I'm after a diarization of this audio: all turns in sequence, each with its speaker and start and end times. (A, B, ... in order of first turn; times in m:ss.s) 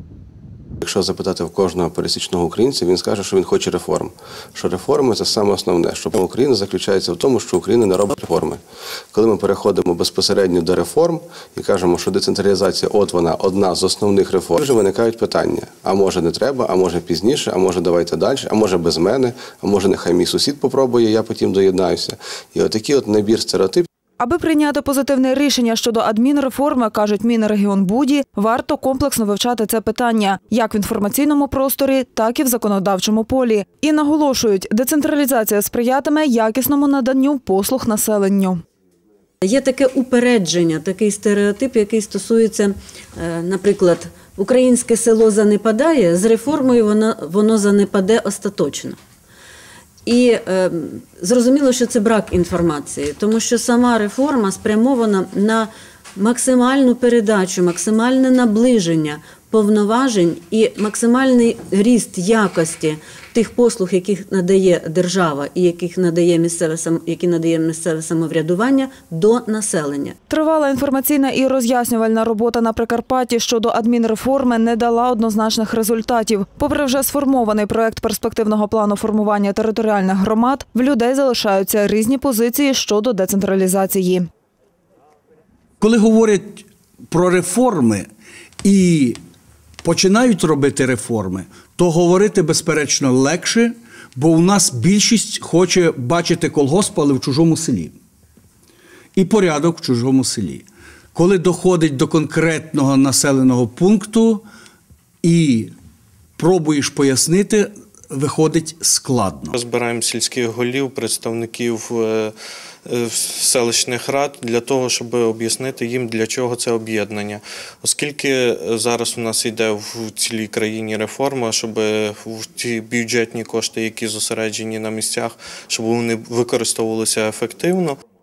0:00.8-0:08.6 A
0:09.1-0:23.9 A
0:24.2-0:38.6 B
0:39.4-0:49.0 C
0:50.0-1:10.2 C
1:10.3-1:24.3 B
1:25.8-1:28.1 D
1:28.6-1:29.2 D
1:29.8-1:38.0 D
1:39.2-1:44.4 D
1:45.2-1:45.7 D
1:46.4-1:49.5 D
1:49.5-1:52.3 E
1:52.8-2:08.0 E